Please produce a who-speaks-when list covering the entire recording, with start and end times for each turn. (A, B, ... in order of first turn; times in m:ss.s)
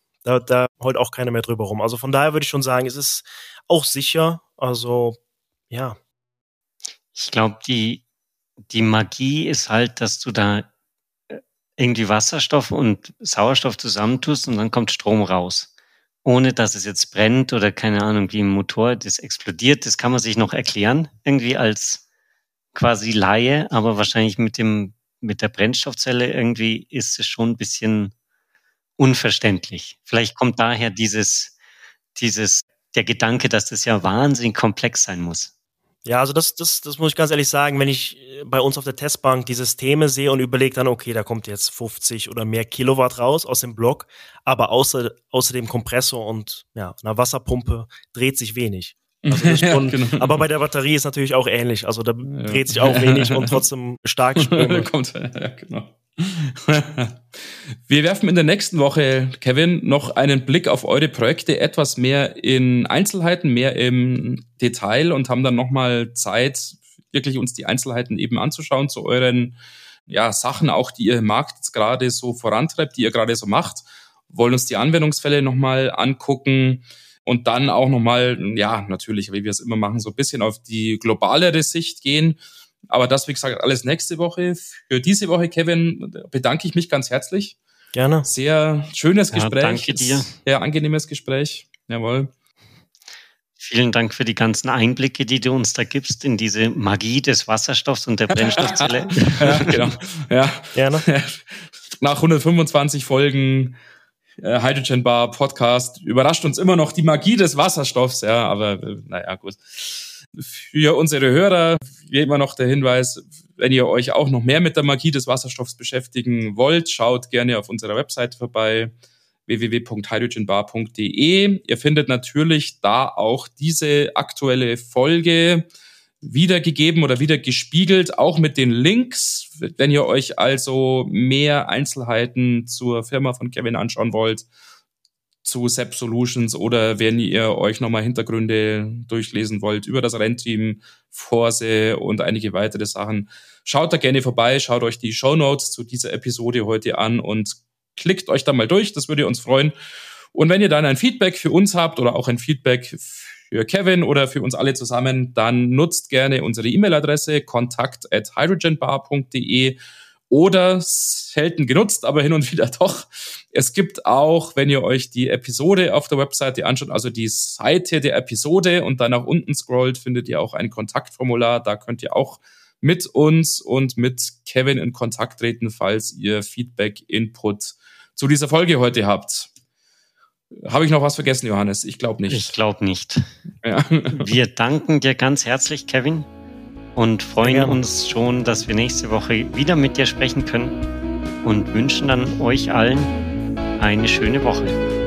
0:00.2-0:05.2 A
0:05.7-0:06.0 A
0:07.1-0:08.0 B
0:08.7-0:10.7 B
0:11.3-0:15.7 B
0:16.2-0:22.0 B
0:22.7-0:28.1 B
0:29.0-0:31.6 B
0:32.2-0:35.5 B
0:36.0-0:54.9 A
0:49.2-0:50.4 C
0:52.3-0:53.6 C
0:54.4-1:09.6 C
1:10.1-1:27.6 C
1:28.0-1:28.3 A
1:28.3-1:32.3 C
1:29.3-1:30.3 B
1:33.6-1:39.8 B
1:38.5-1:43.8 C
1:40.7-1:41.0 A
1:44.4-1:58.9 C
1:59.5-2:05.7 C
2:06.2-2:14.5 C
2:15.4-2:29.8 C
2:30.3-2:39.8 C
2:40.3-2:59.5 C
3:00.6-3:02.6 C
3:02.3-3:03.3 B
3:03.6-3:04.3 C
3:04.1-3:06.3 B
3:07.0-3:10.8 B
3:07.4-3:07.8 A
3:11.4-3:13.1 B
3:13.8-3:14.8 B